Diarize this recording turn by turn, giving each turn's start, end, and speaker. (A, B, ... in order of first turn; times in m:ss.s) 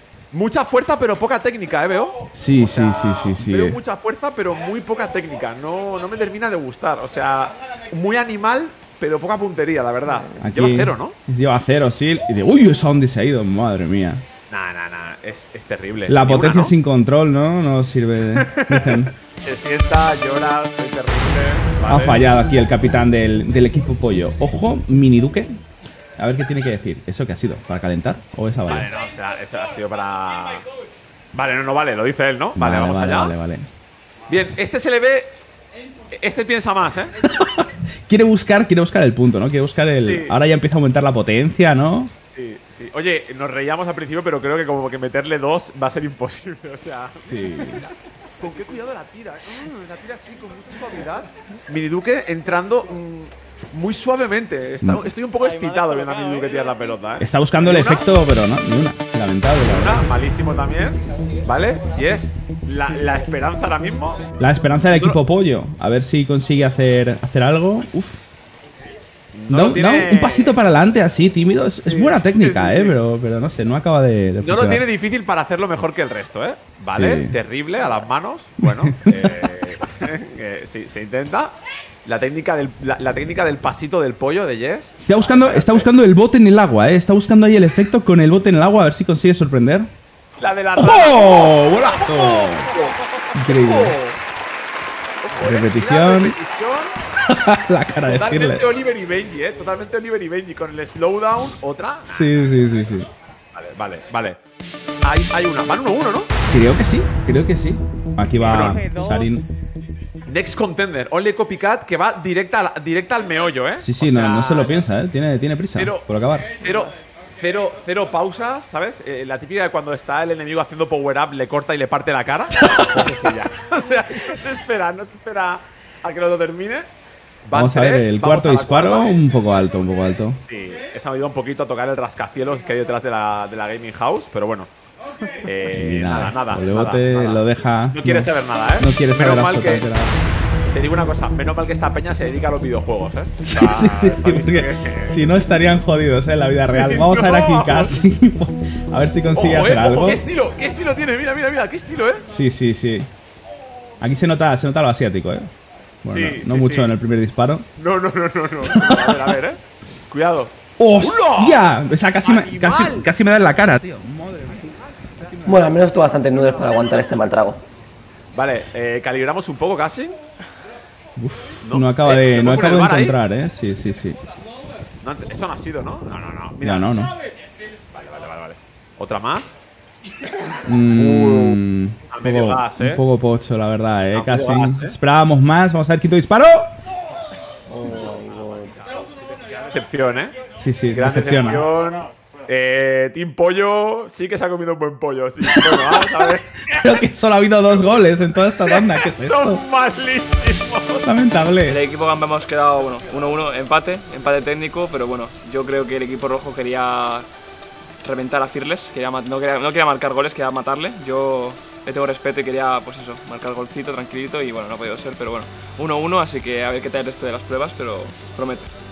0:00.3-0:11.2 A
0:02.3-0:03.8 B
0:10.4-0:14.2 B
0:14.5-0:16.8 A
0:16.1-0:19.1 B
0:18.4-0:22.2 A
0:21.9-0:25.6 B
0:26.2-0:28.9 B
0:28.7-0:30.6 A
0:31.3-0:33.3 A
0:32.6-0:33.7 B
0:34.3-0:35.3 A
0:36.1-0:37.2 A
0:37.6-0:42.1 B
0:40.0-0:40.4 A
0:42.3-0:58.1 A
0:47.2-0:47.9 B
0:57.2-1:00.1 B
0:59.6-1:04.2 A
1:04.4-1:08.2 B
1:04.9-1:05.2 A
1:09.3-1:10.6 A
1:09.5-1:14.8 B
1:11.8-1:13.0 A
1:14.4-1:25.9 A
1:16.8-1:17.3 B
1:18.6-1:19.4 B
1:25.0-1:29.9 B
1:30.4-1:34.2 A
1:30.8-1:32.7 B
1:33.4-1:34.0 B
1:35.2-1:37.0 A
1:35.4-1:36.4 B
1:37.2-1:38.7 B
1:38.0-1:42.5 A
1:42.1-1:43.1 B
1:43.5-1:44.4 A
1:45.0-1:46.3 A
1:46.5-1:49.4 B
1:48.4-1:49.2 A
1:50.3-1:54.7 A
1:53.8-1:56.6 B
1:55.8-2:06.9 A
2:07.4-2:09.2 A
2:07.5-2:10.4 B
2:10.4-2:14.7 A
2:15.4-2:19.9 A
2:15.7-2:20.2 B
2:20.7-2:25.2 A
2:23.4-2:30.2 B
2:26.7-2:28.0 A
2:29.3-2:32.2 A
2:32.3-2:33.1 B
2:34.0-2:35.5 B
2:36.0-2:37.6 B
2:36.0-2:36.9 A
2:37.8-2:41.6 A
2:38.7-2:39.3 B
2:40.8-2:45.6 B
2:42.2-2:43.1 A
2:45.4-2:47.6 C
2:48.3-2:50.2 A
2:51.2-2:54.2 B
2:51.6-2:53.2 A
2:55.0-2:57.1 A
2:56.6-2:57.1 B
2:57.9-2:59.6 A
3:00.7-3:06.7 B
3:00.9-3:01.6 A
3:02.1-3:03.0 A
3:04.1-3:05.0 A
3:07.7-3:08.8 C
3:08.8-3:10.4 A
3:10.5-3:11.7 B
3:10.9-3:16.9 A
3:15.5-3:19.6 B
3:18.7-3:21.1 A
3:21.0-3:21.8 B
3:21.7-3:27.3 D
3:28.0-3:38.7 D